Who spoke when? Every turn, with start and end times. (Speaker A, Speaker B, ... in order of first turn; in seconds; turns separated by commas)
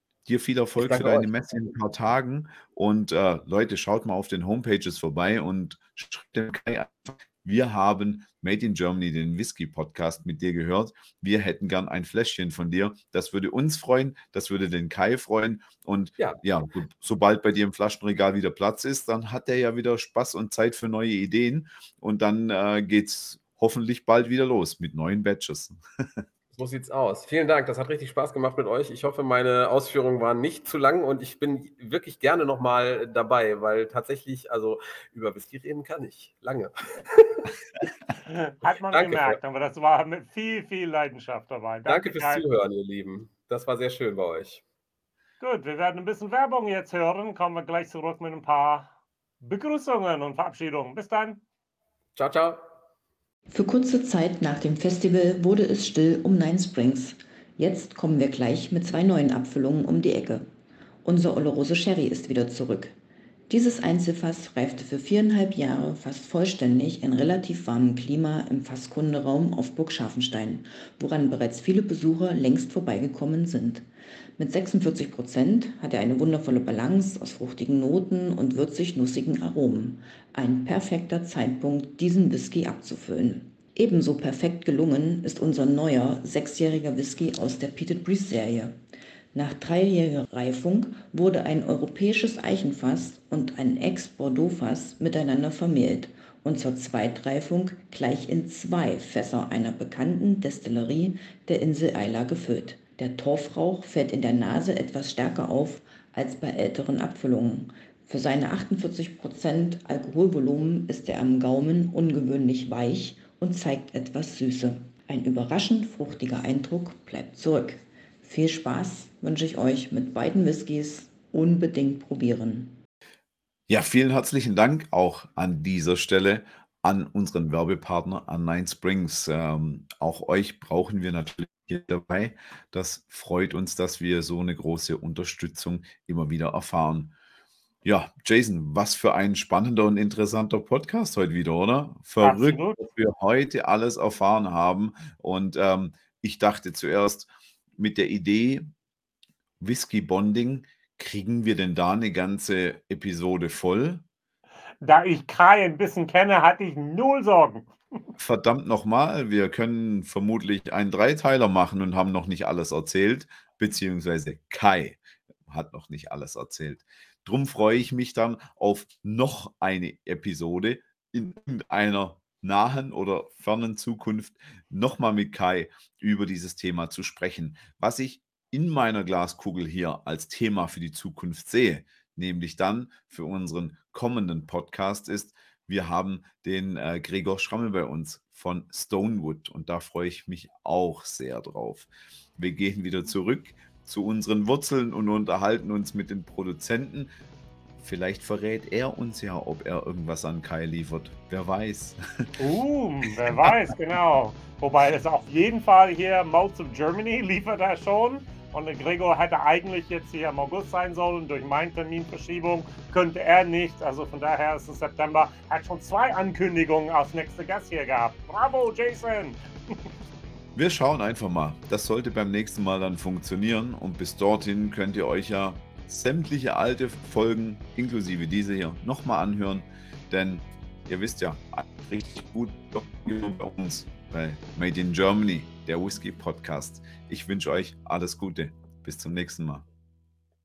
Speaker A: 0.3-26.2, Speaker B: 0.8-1.3, Speaker B: 26.5-37.5, Speaker C: 38.3-42.4, Speaker B: 38.9-39.4, Speaker B: 41.9-44.6, Speaker C: 45.4-51.4, Speaker B: 52.2-52.6, Speaker D: 53.5-60.5, Speaker D: 61.0-63.0, Speaker D: 63.5-73.9, Speaker D: 74.4-88.8, Speaker D: 89.3-122.8, Speaker A: 123.7-137.1, Speaker A: 137.8-148.7, Speaker C: 142.2-142.8, Speaker A: 149.6-154.0, Speaker C: 154.8-157.7, Speaker A: 158.2-197.1, Speaker A: 197.8-202.3, Speaker C: 202.4-219.9, Speaker A: 220.6-239.7